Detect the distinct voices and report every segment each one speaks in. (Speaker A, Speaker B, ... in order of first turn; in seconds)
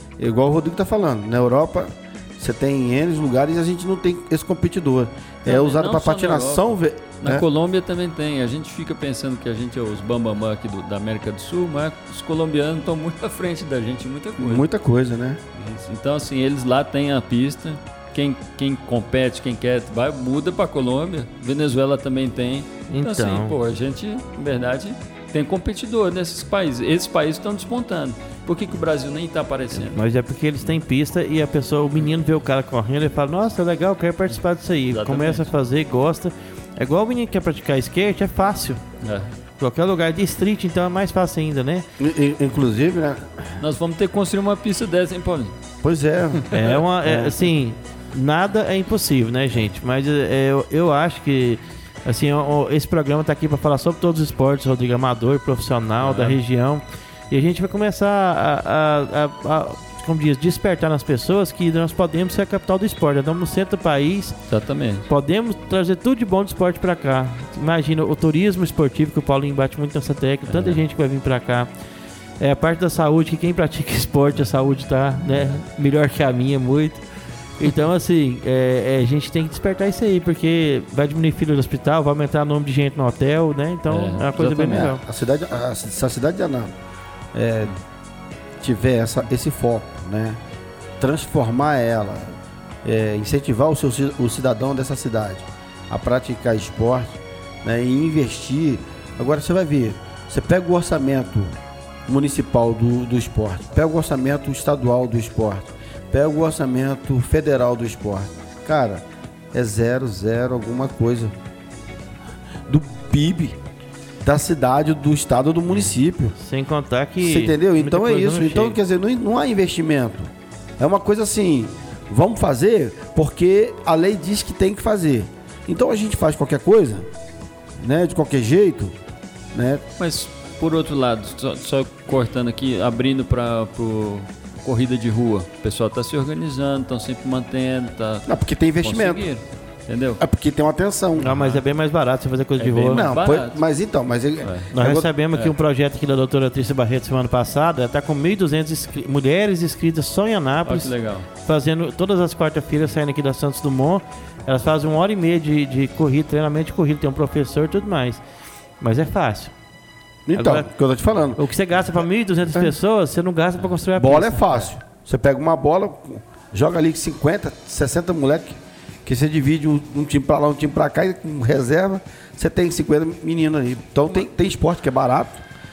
Speaker A: 0.2-7.4, 14.4-15.4, 42.0-43.3, 45.8-46.5, 47.0-47.4, 84.5-86.7, 87.3-87.7, 88.6-90.4, 91.0-101.5, 102.1-111.3, 112.7-113.6, 114.2-116.4, 117.2-127.1, 127.8-128.9, 129.5-129.8, 138.3-139.3, 140.2-141.3, 142.9-145.1, 160.3-161.4, 164.0-175.4
Speaker B: 5.5-14.7, 15.6-30.0, 34.3-35.5, 39.0-39.3, 43.6-45.5, 56.0-56.4, 64.5-65.1, 70.5-70.8, 83.9-84.9, 130.0-140.2, 141.3-141.6, 142.6-143.6, 144.4-144.7, 150.7-151.3
Speaker C: 22.9-23.6, 29.7-38.9, 39.6-41.9, 46.5-64.4, 65.1-71.7, 72.4-77.0, 77.6-85.0, 116.4-118.8, 141.2-143.1, 144.7-158.2, 158.8-159.5, 160.3-160.7, 161.4-164.4